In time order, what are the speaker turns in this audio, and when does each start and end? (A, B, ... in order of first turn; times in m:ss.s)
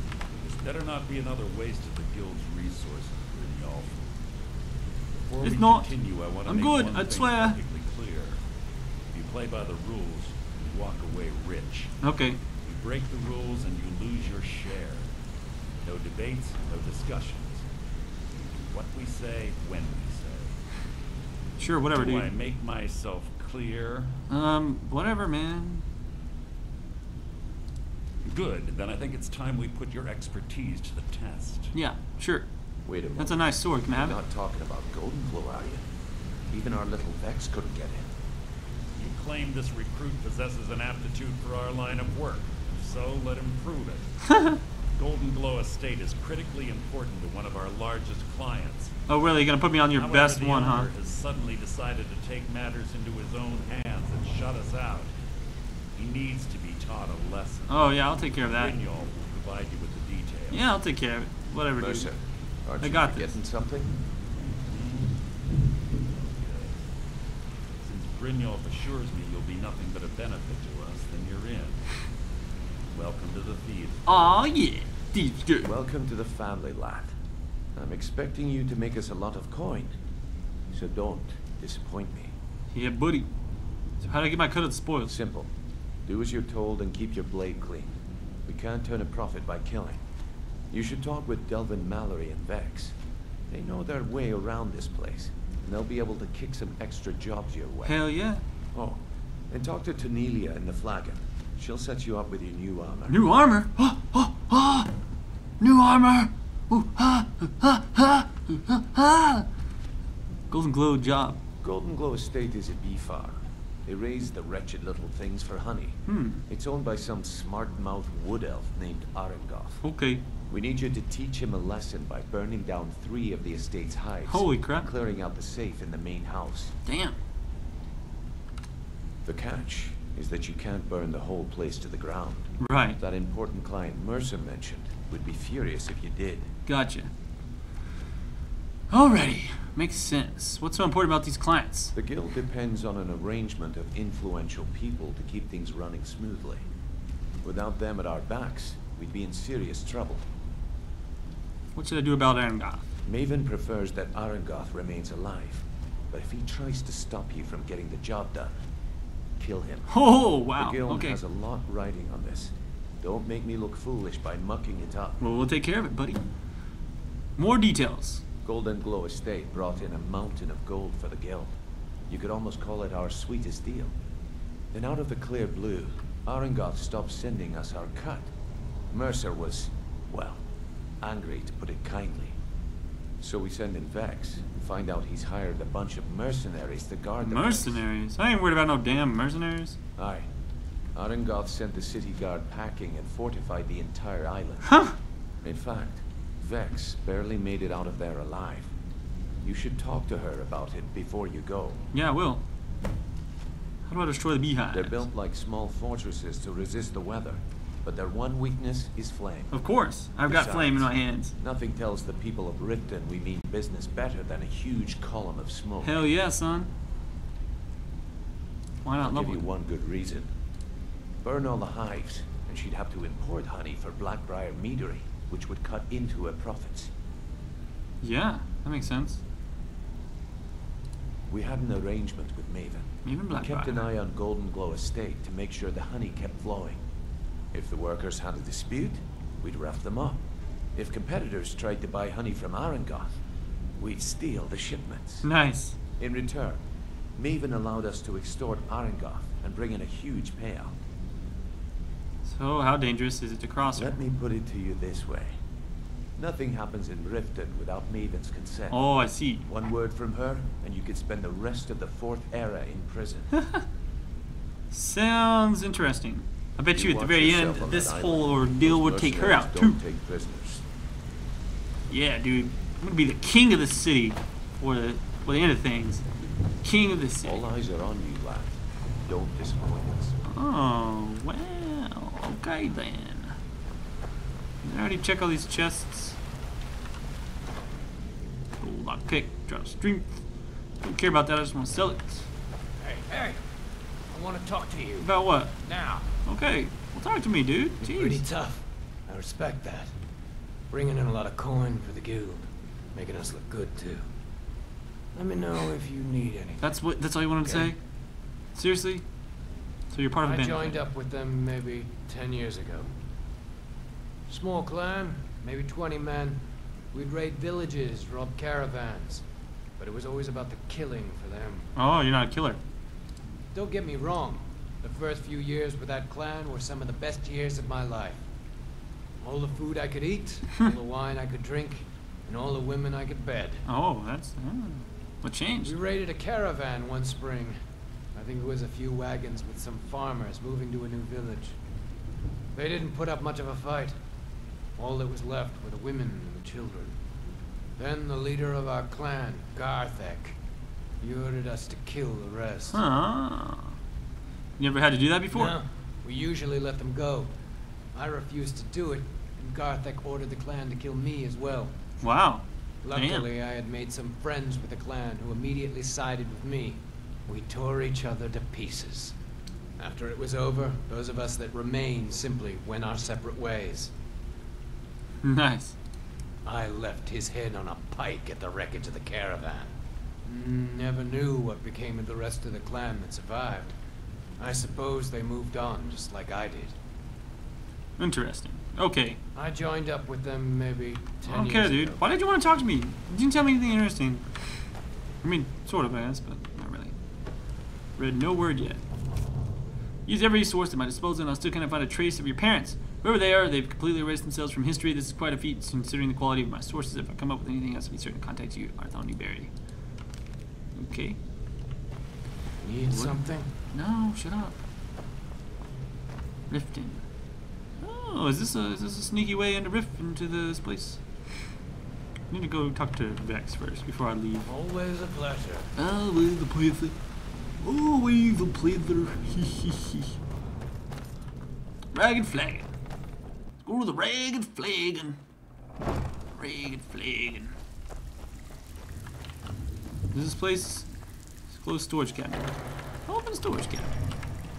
0:00.4-0:04.0 A
0:05.2-0:08.4 A
0:05.4-0:05.9 B
0:06.4-0:07.6 B
0:09.1-0:12.0 A
0:12.0-0:12.4 B
0:12.6-0:15.1 A
0:15.8-0:17.7 A
0:18.6-0:20.6 A
0:21.6-0:22.3 B
0:21.9-0:24.2 A
0:24.3-0:25.8 B
0:28.2-0:31.7 A
0:31.7-0:32.5 B
0:32.8-0:35.9 C
0:33.2-0:34.2 B
0:36.5-0:38.1 C
0:39.0-0:44.3 A
0:45.0-0:49.0 A
0:49.1-0:50.9 B
0:49.9-0:55.1 A
0:56.0-0:57.9 A
0:57.7-0:58.8 B
0:58.5-1:00.7 A
1:00.5-1:02.1 B
1:01.8-1:03.9 C
1:02.8-1:03.4 B
1:04.6-1:05.3 A
1:05.9-1:06.9 A
1:07.8-1:11.9 A
1:12.9-1:14.2 A
1:14.1-1:15.7 B
1:15.6-1:17.2 C
1:17.8-1:20.0 C
1:20.7-1:22.3 C
1:22.7-1:23.3 B
1:24.0-1:25.1 B
1:25.1-1:25.5 C
1:26.1-1:30.0 C
1:30.7-1:33.0 C
1:33.5-1:38.0 C
1:37.8-1:38.4 B
1:38.7-1:43.3 C
1:43.1-1:44.9 B
1:45.6-1:49.5 B
1:50.5-1:51.4 B
1:51.6-1:59.8 C
1:56.1-1:56.4 B
1:59.8-2:00.2 B
2:00.5-2:06.8 C
2:04.3-2:04.9 B
2:06.8-2:07.2 B
2:09.2-2:16.5 C
2:12.6-2:13.0 B
2:16.7-2:17.1 B
2:18.9-2:21.9 B
2:21.9-2:26.7 C
2:27.4-2:30.3 C
2:31.7-2:32.9 B
2:33.0-2:38.6 C
2:39.4-2:39.9 C
2:39.9-2:41.2 B
2:40.5-2:45.2 C
2:45.2-2:46.2 B
2:47.4-2:48.2 B
2:48.4-2:51.6 C
2:52.1-2:54.0 C
2:54.7-2:58.3 C
2:58.9-3:00.4 C
3:01.0-3:02.4 C
3:03.2-3:07.8 C
3:07.2-3:09.8 B
3:10.0-3:10.3 C
3:11.0-3:14.9 C
3:15.4-3:18.7 C
3:19.4-3:21.8 C
3:21.9-3:22.4 B
3:23.8-3:25.0 B
3:24.7-3:29.6 C
3:29.5-3:31.3 B
3:30.2-3:36.0 C
3:35.8-3:36.7 B
3:38.8-3:39.5 B
3:39.0-3:40.3 C
3:41.2-3:46.9 C
3:48.0-3:49.2 B
3:51.3-3:56.8 C
3:53.0-3:53.9 B
3:57.5-4:03.2 C
4:03.8-4:05.3 C
4:05.2-4:05.8 B
4:06.0-4:06.6 C
4:07.2-4:10.8 C
4:12.2-4:14.0 B
4:13.7-4:15.4 C
4:16.2-4:18.8 C
4:18.7-4:19.5 B
4:19.4-4:23.3 C
4:23.4-4:23.6 B
4:24.7-4:29.8 B
4:26.7-4:30.6 C
4:31.9-4:36.0 B
4:36.6-4:37.4 B
4:37.2-4:40.2 C
4:40.2-4:43.4 B
4:44.6-4:46.2 B
4:48.6-4:50.2 B
4:50.8-4:52.3 B
4:52.8-4:53.4 D
4:54.1-4:56.1 D
4:55.0-4:55.6 B
4:56.2-4:58.2 B
4:57.8-4:59.9 D
5:00.7-5:04.0 D
5:05.1-5:06.7 D
5:06.6-5:07.8 B
5:07.4-5:07.8 D
5:08.5-5:09.1 B
5:09.9-5:10.8 B
5:10.2-5:12.9 D
5:14.3-5:19.2 D
5:19.8-5:21.7 D
5:21.8-5:22.6 B
5:23.5-5:28.2 D
5:29.2-5:33.6 D
5:33.6-5:35.8 B
5:35.6-5:37.6 D
5:38.1-5:41.6 D
5:42.5-5:44.0 D
5:44.8-5:47.0 D
5:47.8-5:50.4 D
5:51.0-5:52.8 D
5:52.7-5:53.8 B
5:54.6-5:55.6 B
5:55.3-5:57.3 D
5:57.9-6:01.8 D
6:02.0-6:03.3 B
6:02.8-6:09.2 D
6:09.8-6:13.9 D
6:15.2-6:15.8 B
6:16.4-6:19.7 D
6:20.2-6:23.8 D
6:24.4-6:26.8 D
6:28.0-6:29.2 B
6:29.4-6:32.0 D
6:31.2-6:34.6 B
6:35.2-6:37.0 B
6:38.0-6:38.8 B
6:40.1-6:49.5 B
6:50.8-6:51.2 B
6:52.6-6:53.5 D
6:52.9-6:54.6 B
6:56.5-6:57.0 B
6:57.8-7:01.0 B
7:02.3-7:04.5 B
7:04.4-7:05.7 D
7:05.8-7:07.0 B
7:07.6-7:10.1 B
7:11.9-7:12.7 B
7:13.6-7:15.2 B
7:16.3-7:17.6 B
7:20.1-7:20.9 B
7:21.5-7:22.6 B
7:23.1-7:24.0 B